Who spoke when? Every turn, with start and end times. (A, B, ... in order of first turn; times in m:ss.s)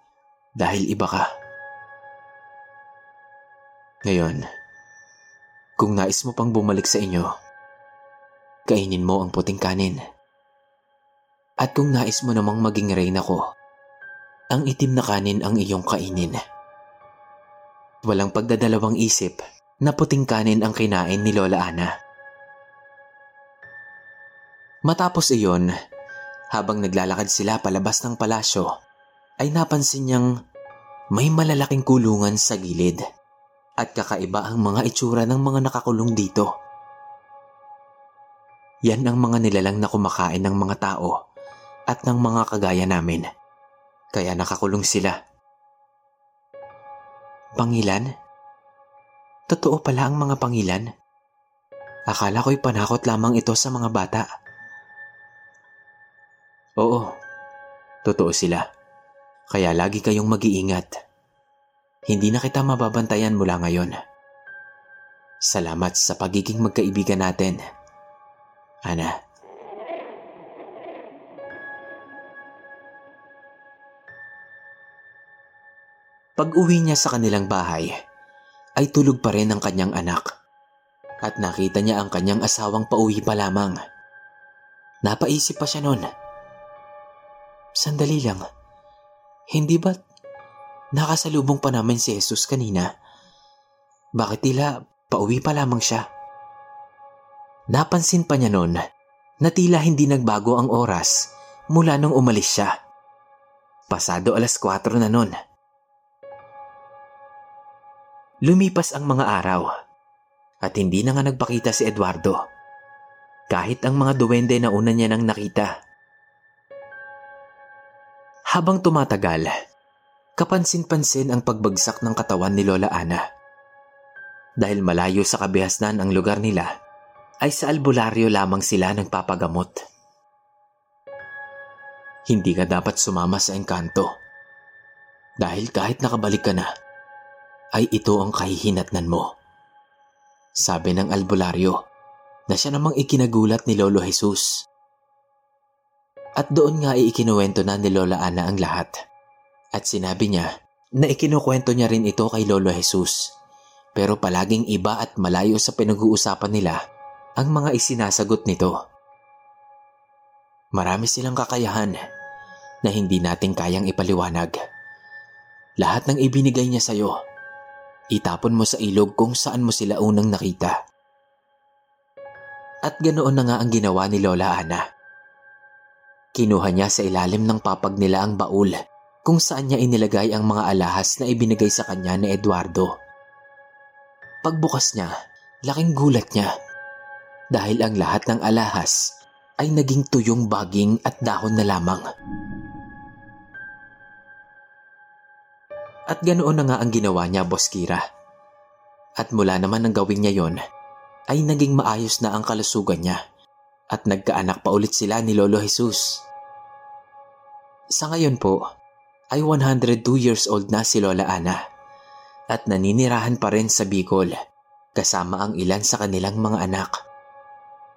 0:00.6-0:01.2 A
0:04.1-0:04.4 A
0:05.8-0:07.3 A
0:08.7-0:10.0 A
0:11.6-0:13.4 A
0:14.5-0:16.4 A
0:18.0-0:21.9 A
0:24.9-0:25.7 A
0:26.6-0:28.7 A
0:29.4-0:30.3 A
0:31.2-0:33.0 A
0:33.8-0:36.5 A
0:38.9-0:41.1 A
0:41.9-0:43.2 A
0:44.2-0:45.1 A
0:47.6-0:48.0 A
0:49.5-0:50.8 A
0:52.1-0:54.2 A
0:58.1-0:58.6 A
0:59.5-1:00.9 A
1:02.1-1:03.9 A
1:05.5-1:07.6 A
1:16.4-1:17.9 A
1:18.8-1:20.2 A
1:21.2-1:23.8 A
1:25.0-1:26.0 A
1:27.8-1:28.4 A
1:29.5-1:30.0 A
1:31.0-1:32.8 A
1:34.2-1:36.0 A
1:37.7-1:38.8 A
1:39.4-1:41.1 A
1:41.7-1:42.7 A
1:43.9-1:45.3 A
1:48.5-1:49.6 A
1:50.6-1:52.4 A
1:53.5-1:55.7 A
1:58.6-1:59.5 A
2:00.4-2:03.2 A
2:04.6-2:06.7 A
2:07.4-2:09.7 A
2:12.3-2:14.0 A
2:15.4-2:16.6 A
2:17.8-2:19.2 A
2:20.6-2:21.7 A
2:22.5-2:24.5 A
2:26.4-2:28.9 A
2:29.8-2:30.5 A
2:31.0-2:33.2 A
2:34.0-2:36.8 A
2:37.4-2:38.7 A
2:40.8-2:41.9 A
2:42.9-2:44.6 A
2:45.8-2:47.1 A
2:48.2-2:50.7 A
2:52.9-2:54.8 A
2:56.4-2:58.7 A
2:59.3-3:02.9 A
3:04.4-3:05.1 A
3:05.7-3:06.5 A
3:07.6-3:09.0 A
3:09.6-3:12.0 A
3:16.1-3:18.0 A
3:19.2-3:20.6 A
3:21.3-3:23.2 A
3:23.9-3:26.1 A
3:28.0-3:28.6 A
3:29.3-3:31.6 A
3:32.5-3:34.3 A
3:35.0-3:36.9 A